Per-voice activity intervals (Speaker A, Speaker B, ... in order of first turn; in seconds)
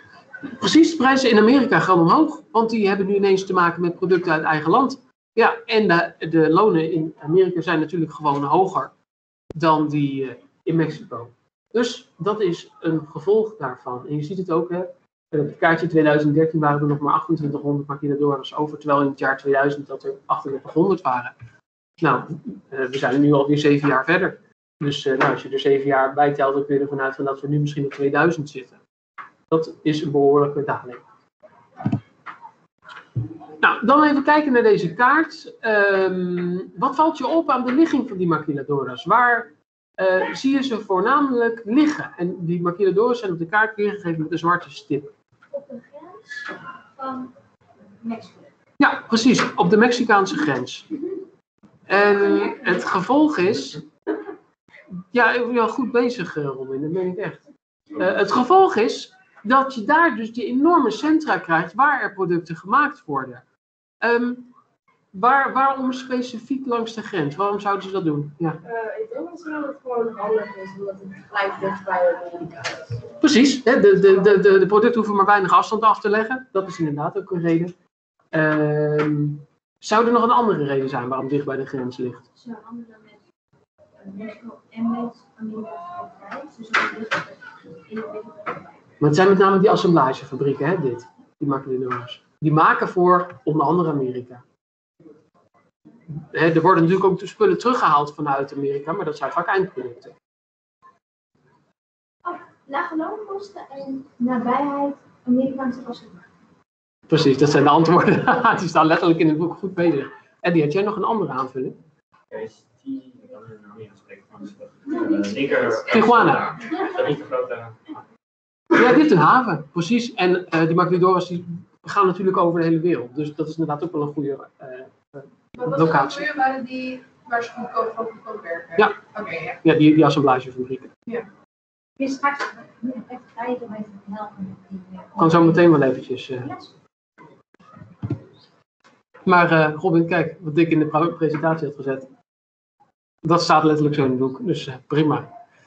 Speaker A: 0.5-8.9, 9.5-21.4, 22.0-28.8, 29.5-31.0, 33.6-45.1, 48.8-50.9, 51.9-53.8, 55.1-57.4, 57.9-63.5, 64.0-64.5, 65.1-68.6, 73.2-77.7, 78.3-82.2, 89.0-94.4, 96.2-100.2, 107.1-111.8, 115.8-116.6, 118.7-126.3, 129.6-130.9, 135.2-136.5, 139.3-142.1, 143.2-145.3
Speaker B: 45.5-47.3, 48.0-48.5, 52.2-52.5, 82.4-83.2, 84.0-88.7, 102.2-106.2, 132.0-135.6
Speaker C: 68.7-72.8, 125.6-129.6
Speaker D: 112.3-118.0